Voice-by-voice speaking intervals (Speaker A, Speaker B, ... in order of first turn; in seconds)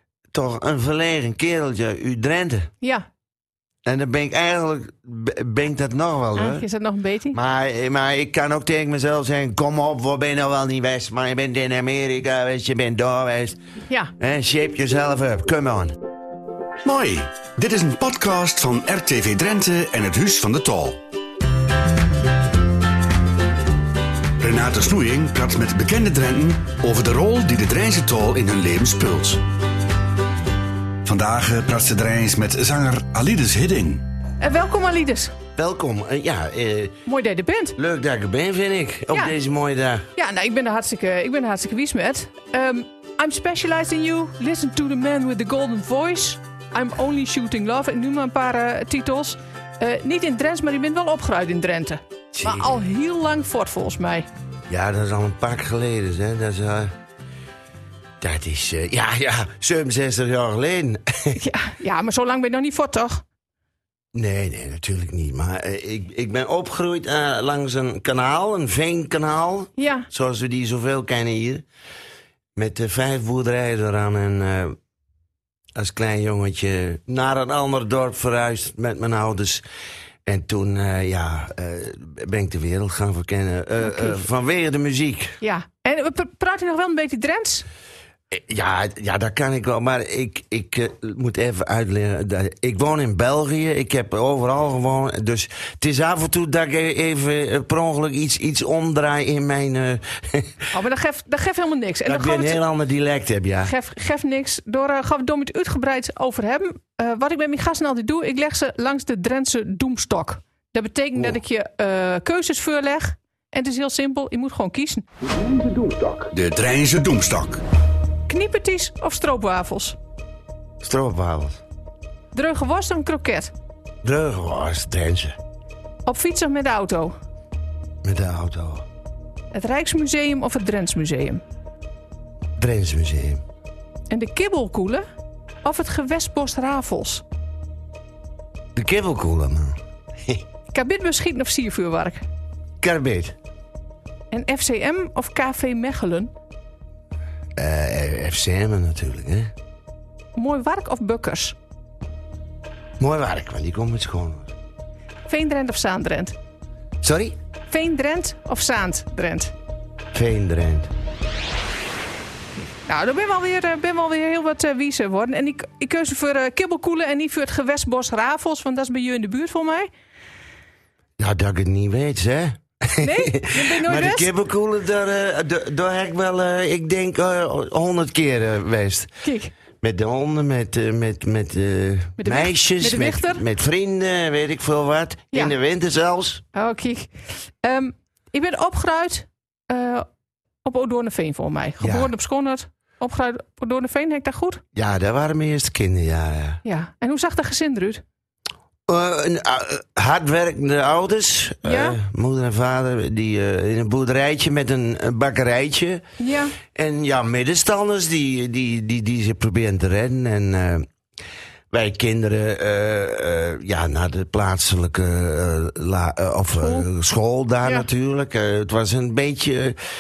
Speaker A: 0.3-2.7, 3.9-6.6, 7.3-13.6, 14.2-15.9, 35.5-37.0, 37.8-40.1, 52.3-52.8, 54.7-56.9, 58.2-61.4, 64.1-71.6, 72.5-74.8, 75.8-79.6, 80.2-85.4, 88.3-100.7, 102.0-103.7, 120.8-121.6, 124.0-125.4, 128.0-128.8, 132.6-133.4, 138.8-140.4, 142.8-143.4, 147.6-149.5, 153.0-154.5, 157.0-157.3, 160.1-160.9, 171.2-179.1, 179.8-186.4, 191.8-192.1, 194.8-196.6, 198.9-206.0, 206.7-210.9, 211.7-219.8
Speaker B: 2.8-3.1, 6.4-7.4, 34.4-35.3, 37.0-37.8, 40.2-54.3, 61.4-63.2, 69.8-70.1, 83.8-84.2, 85.4-87.6, 100.7-102.6, 103.6-115.0, 118.3-120.0, 122.3-123.5, 126.1-127.1, 129.5-131.4, 134.1-135.0, 135.6-137.2, 140.7-142.2, 144.3-146.3, 150.3-151.6, 155.3-156.3, 157.7-159.5, 162.8-169.9, 173.0-174.3, 179.2-179.5, 182.2-183.4, 186.5-190.1, 190.6-194.6, 196.6-198.0, 201.6-202.0, 206.2-206.5, 216.6-216.8
Speaker C: 16.8-21.0, 24.4-29.4, 31.0-34.0, 115.3-117.6